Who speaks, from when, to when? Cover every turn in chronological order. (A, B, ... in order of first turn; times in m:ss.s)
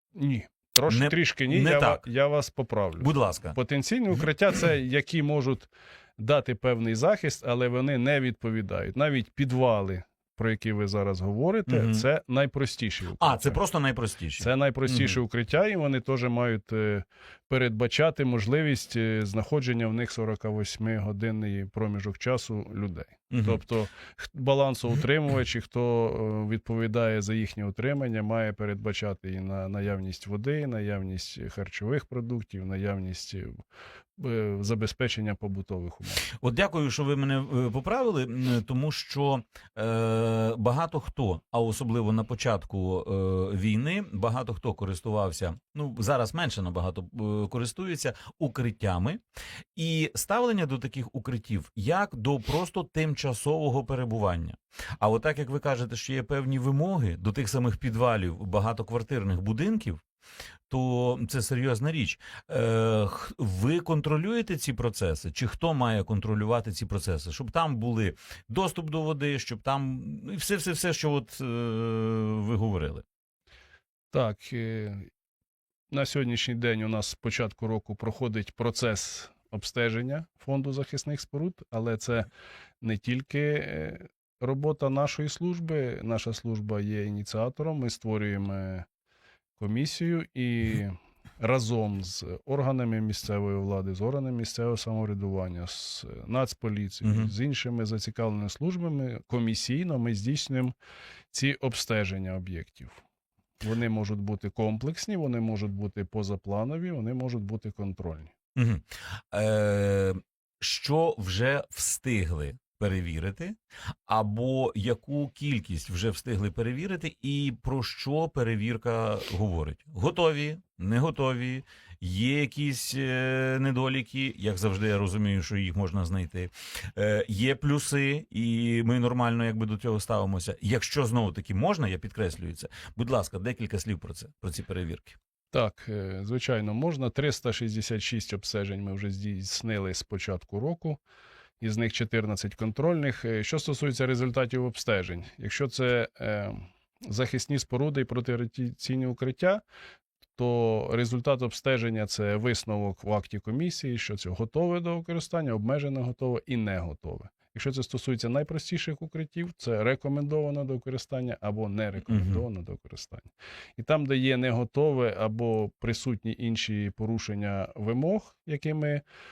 0:00.1-0:13.6 A
0:00.9-0:02.0 B
0:03.0-0:03.6 B
0:11.7-0:12.0 B
0:13.2-0:15.2 B
0:14.4-0:33.6 A
0:23.3-0:23.6 B
0:34.2-0:36.2 A
0:36.4-0:49.2 B
0:49.8-1:00.0 B
1:00.7-1:13.0 B
1:14.1-1:15.1 A
1:15.9-1:22.3 A
1:22.8-1:28.8 A
1:29.6-1:40.7 A
1:37.0-1:37.3 B
1:41.3-1:43.0 A
1:43.6-1:48.3 A
1:48.6-1:53.5 B
1:54.1-2:15.2 B
2:15.5-2:21.0 A
2:21.6-2:29.6 A
2:30.4-2:49.0 A
2:42.0-2:42.4 B